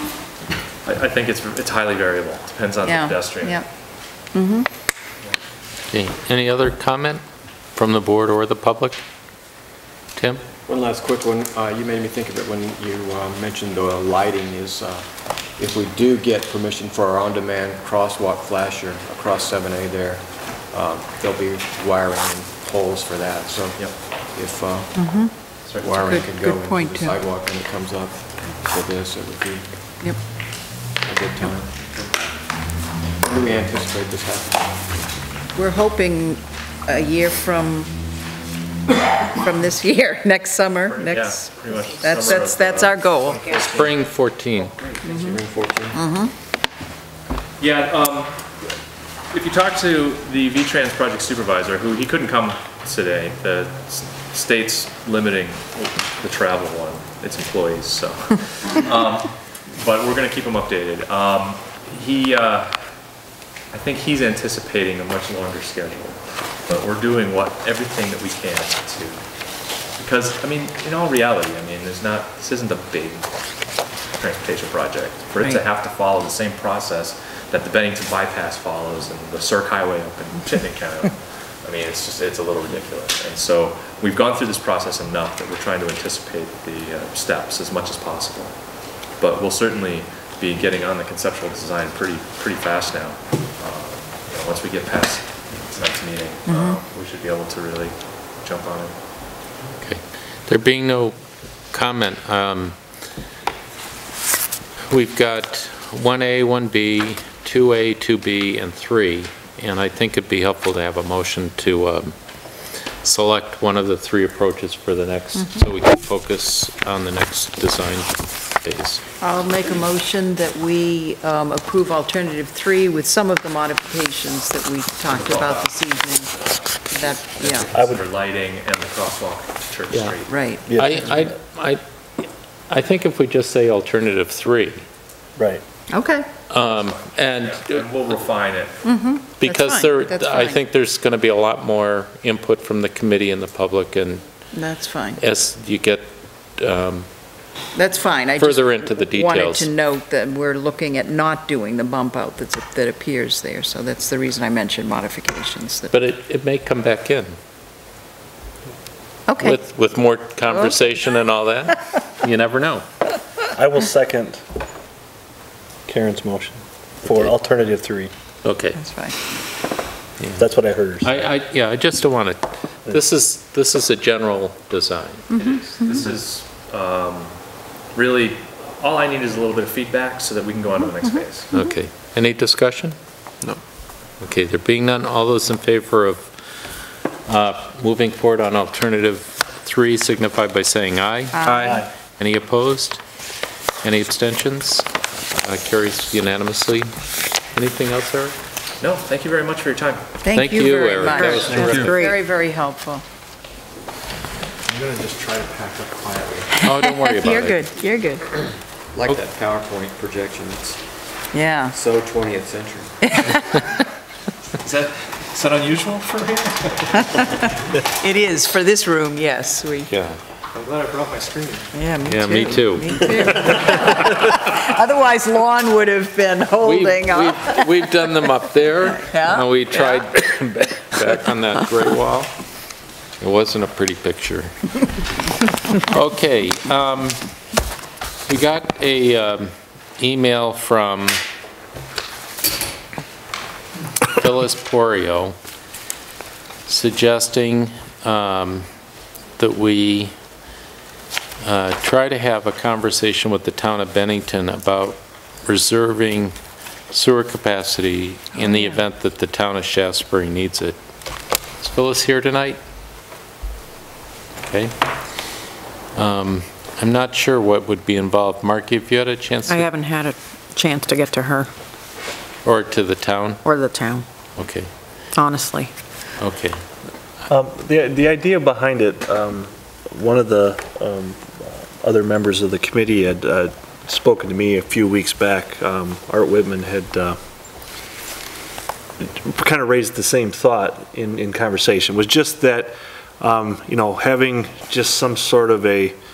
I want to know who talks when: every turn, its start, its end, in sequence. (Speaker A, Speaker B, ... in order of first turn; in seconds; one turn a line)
Speaker A: 0.8-3.6
Speaker B: 2.8-3.7
Speaker B: 4.3-4.7
Speaker C: 5.9-7.2
Speaker C: 7.7-9.0
Speaker C: 10.2-10.4
Speaker D: 10.7-29.7
Speaker B: 24.9-27.2
Speaker D: 31.0-31.8
Speaker A: 31.9-32.1
Speaker D: 33.2-34.8
Speaker B: 35.5-37.9
Speaker B: 39.3-43.4
Speaker A: 40.9-45.1
Speaker C: 43.5-44.7
Speaker D: 45.0-46.0
Speaker B: 45.0-45.4
Speaker B: 45.9-46.3
Speaker A: 47.6-48.4
Speaker A: 49.3-62.8
Speaker A: 63.7-69.2
Speaker A: 70.0-73.3
Speaker A: 74.2-88.6
Speaker A: 89.2-98.9
Speaker B: 96.5-96.8
Speaker C: 99.8-101.2
Speaker C: 101.7-102.8
Speaker C: 104.9-112.1
Speaker C: 113.0-119.0
Speaker B: 119.2-126.3
Speaker A: 125.1-130.3
Speaker B: 126.8-127.7
Speaker E: 127.7-128.0
Speaker B: 130.3-130.6
Speaker E: 130.7-131.3
Speaker C: 130.7-134.8
Speaker E: 135.4-135.6
Speaker B: 135.9-136.2
Speaker C: 136.5-137.9
Speaker A: 136.7-138.8
Speaker B: 138.8-140.6
Speaker C: 139.4-144.2
Speaker B: 144.5-145.2
Speaker C: 145.2-146.0
Speaker C: 146.6-147.1
Speaker B: 147.7-155.9
Speaker C: 148.4-149.7
Speaker C: 155.9-157.3
Speaker B: 159.3-159.6
Speaker C: 159.4-162.8
Speaker B: 160.5-161.0
Speaker E: 163.5-164.4
Speaker E: 165.9-168.1
Speaker C: 168.4-168.8
Speaker B: 168.7-169.2
Speaker C: 170.2-170.4
Speaker E: 170.4-171.1
Speaker C: 171.0-175.3
Speaker B: 175.3-176.0
Speaker A: 175.3-177.3
Speaker A: 177.9-181.5
Speaker C: 181.5-182.9
Speaker C: 184.2-186.3
Speaker C: 187.3-193.0
Speaker B: 191.3-191.8
Speaker E: 191.5-191.9
Speaker C: 193.8-194.9
Speaker C: 195.4-196.9
Speaker C: 197.5-198.3
Speaker A: 198.8-200.1
Speaker B: 200.2-203.0
Speaker C: 200.3-202.0
Speaker D: 201.3-202.1
Speaker D: 204.7-206.7
Speaker C: 206.6-207.6
Speaker B: 206.7-208.3
Speaker D: 208.9-210.8
Speaker B: 211.3-211.8
Speaker D: 211.7-212.9
Speaker B: 213.0-213.7
Speaker A: 214.6-217.0
Speaker B: 217.1-219.9
Speaker C: 219.9-220.2
Speaker A: 220.5-221.7
Speaker B: 221.7-228.1
Speaker C: 222.1-223.5
Speaker C: 226.6-232.3
Speaker B: 228.8-230.1
Speaker C: 233.2-234.8
Speaker C: 235.7-237.2
Speaker C: 238.3-241.2
Speaker C: 244.1-245.3
Speaker C: 246.7-248.7
Speaker C: 249.4-250.1
Speaker C: 251.4-256.3
Speaker C: 256.9-260.8
Speaker B: 258.4-258.8
Speaker C: 261.6-262.6
Speaker C: 264.4-264.7
Speaker C: 265.9-269.7
Speaker F: 269.5-271.5
Speaker B: 269.5-269.9
Speaker C: 272.4-273.4
Speaker B: 273.4-274.0
Speaker F: 273.5-273.9
Speaker C: 274.4-274.7
Speaker B: 275.2-275.7
Speaker F: 275.3-275.6
Speaker C: 276.2-276.6
Speaker E: 277.3-287.2
Speaker E: 289.0-296.0